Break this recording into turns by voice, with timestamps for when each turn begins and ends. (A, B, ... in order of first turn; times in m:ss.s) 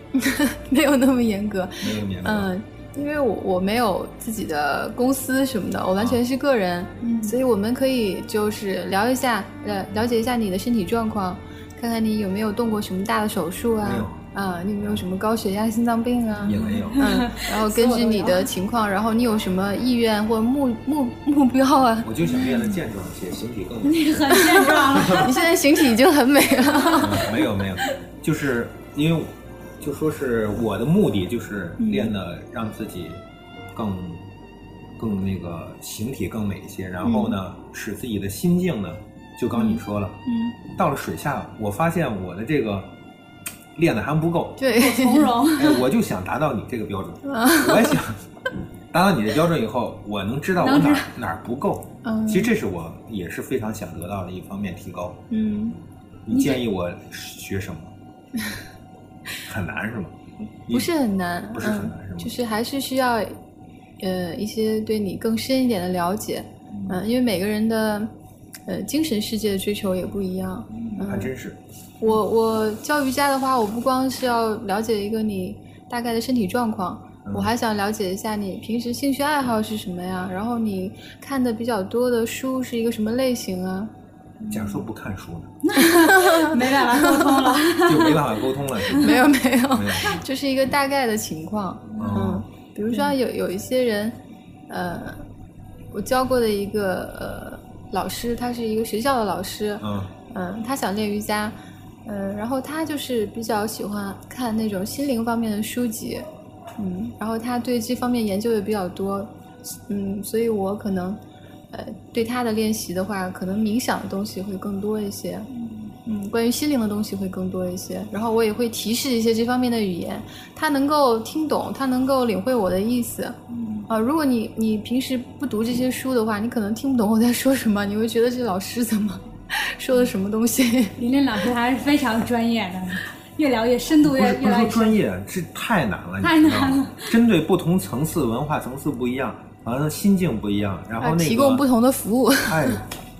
0:00.1-0:22.1 A
0:01.8-0:02.5 B
0:07.0-0:07.3 C
0:13.8-0:14.2 B
0:16.4-0:17.2 B
0:16.4-0:18.5 C
0:22.0-0:25.3 B
0:22.2-0:22.8 C
0:23.8-0:25.5 C
0:24.4-0:27.2 A
0:26.7-0:27.2 C
0:27.0-0:33.2 B
0:31.8-0:32.1 A
0:33.7-0:34.2 B
0:35.0-0:42.9 B
0:37.0-0:37.3 A
0:39.5-0:40.6 A
0:43.7-0:44.7 B
0:44.6-0:45.4 A
0:44.8-0:45.8 C
0:45.5-0:48.2 B
0:47.2-0:48.0 A
0:48.9-0:55.2 B
0:50.6-0:51.1 C
0:52.0-0:52.5 A
0:55.3-0:55.8 A
0:56.2-0:57.9 B
0:56.3-0:56.6 C
0:59.4-1:00.1 B
1:00.7-1:03.4 A
1:01.5-1:02.3 B
1:04.0-1:08.1 A
1:06.7-1:07.0 C
1:08.7-1:11.3 A
1:10.7-1:11.0 C
1:11.0-1:11.6 B
1:12.0-1:23.9 A
1:17.2-1:17.5 B
1:24.4-1:24.8 C
1:24.5-1:25.7 B
1:25.6-1:29.1 C
1:25.8-1:27.5 A
1:27.8-1:30.2 B
1:29.0-1:34.2 A
1:31.9-1:33.1 C
1:32.0-1:32.4 B
1:34.7-1:35.2 A
1:35.9-1:46.2 A
1:39.8-1:40.1 B
1:46.8-1:51.2 A
1:51.7-1:55.5 A
1:55.5-1:55.9 C
1:56.0-2:03.4 A
2:03.5-2:03.9 C
2:03.9-2:11.0 A
2:11.0-2:15.0 C
2:14.0-2:21.6 B
2:16.2-2:17.2 C
2:21.0-2:22.8 A
2:22.4-2:22.8 B